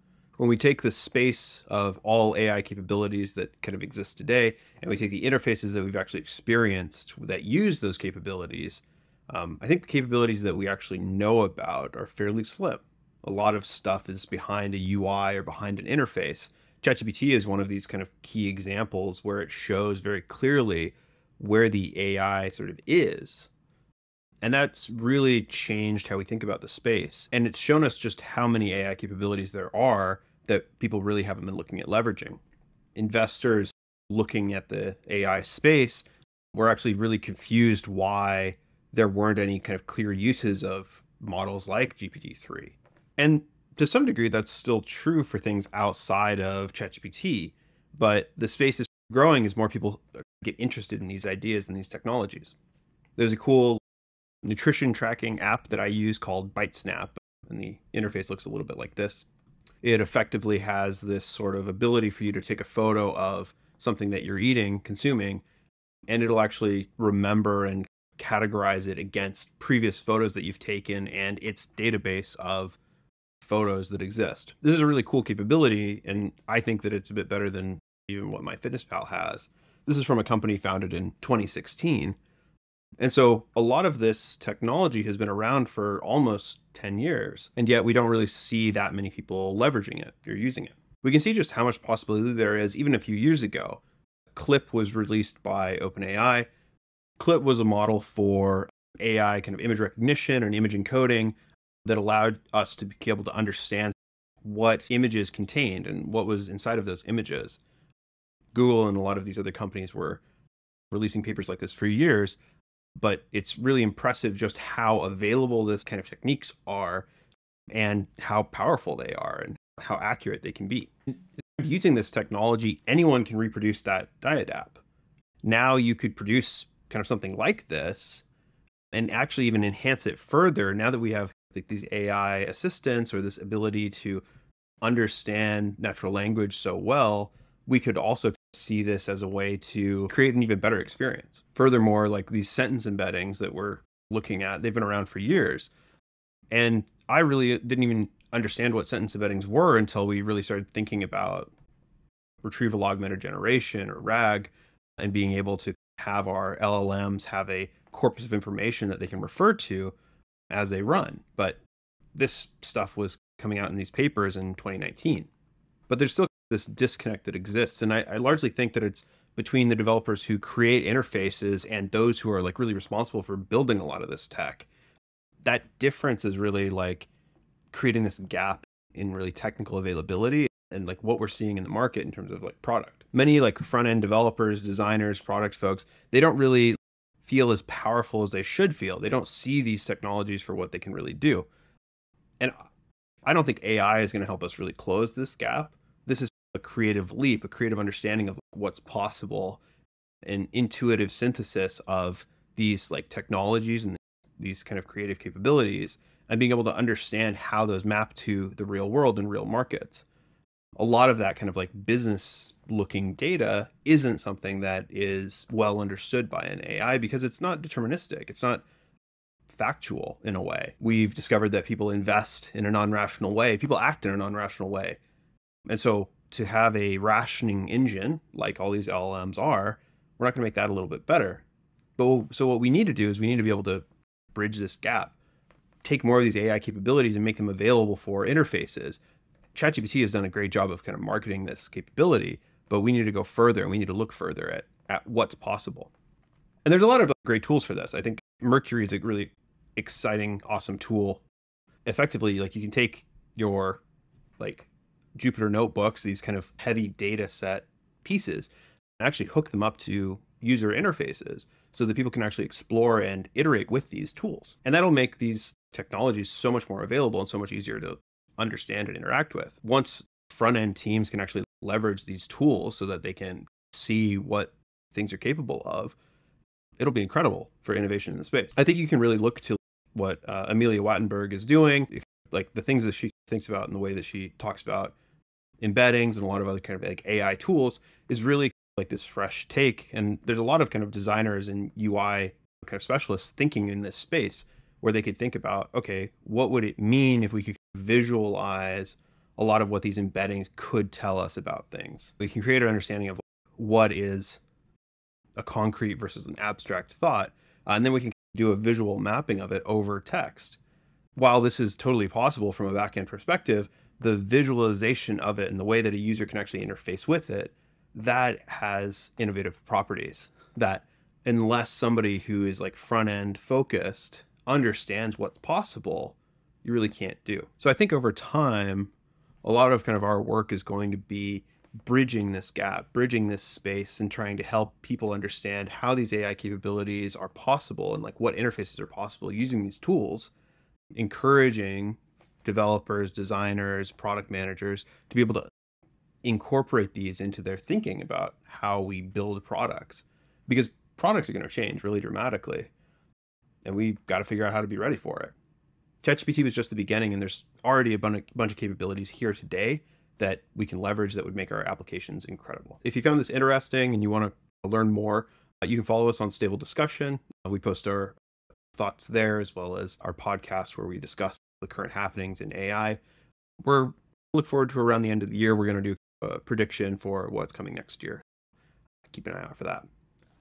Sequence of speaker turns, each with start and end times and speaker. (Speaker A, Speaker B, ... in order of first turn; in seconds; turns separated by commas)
Speaker A: 0.4-23.5, Speaker A: 24.4-32.4, Speaker A: 32.9-52.5, Speaker A: 53.2-53.8, Speaker A: 54.4-59.3, Speaker A: 59.8-65.4, Speaker A: 66.1-72.8, Speaker A: 73.4-82.2, Speaker A: 83.0-93.8, Speaker A: 94.3-96.5, Speaker A: 97.2-107.6, Speaker A: 108.5-110.2, Speaker A: 110.9-112.4, Speaker A: 113.0-117.1, Speaker A: 117.7-124.8, Speaker A: 125.4-128.2, Speaker A: 128.9-134.2, Speaker A: 134.8-145.7, Speaker A: 146.5-151.5, Speaker A: 152.4-159.9, Speaker A: 160.5-161.6, Speaker A: 162.1-165.3, Speaker A: 165.9-174.7, Speaker A: 175.4-177.1, Speaker A: 177.7-191.5, Speaker A: 193.2-199.6, Speaker A: 200.2-210.1, Speaker A: 210.8-218.6, Speaker A: 219.5-225.0, Speaker A: 225.7-231.4, Speaker A: 232.0-233.8, Speaker A: 234.3-235.1, Speaker A: 235.8-239.0, Speaker A: 239.5-245.9, Speaker A: 246.6-251.2, Speaker A: 251.8-253.8, Speaker A: 254.4-276.0, Speaker A: 276.8-284.9, Speaker A: 285.6-304.4, Speaker A: 305.4-310.6, Speaker A: 311.1-328.9, Speaker A: 329.4-340.3, Speaker A: 340.9-345.5, Speaker A: 346.2-352.7, Speaker A: 353.6-355.3, Speaker A: 356.0-368.2, Speaker A: 368.7-373.0, Speaker A: 373.6-378.2, Speaker A: 379.1-379.9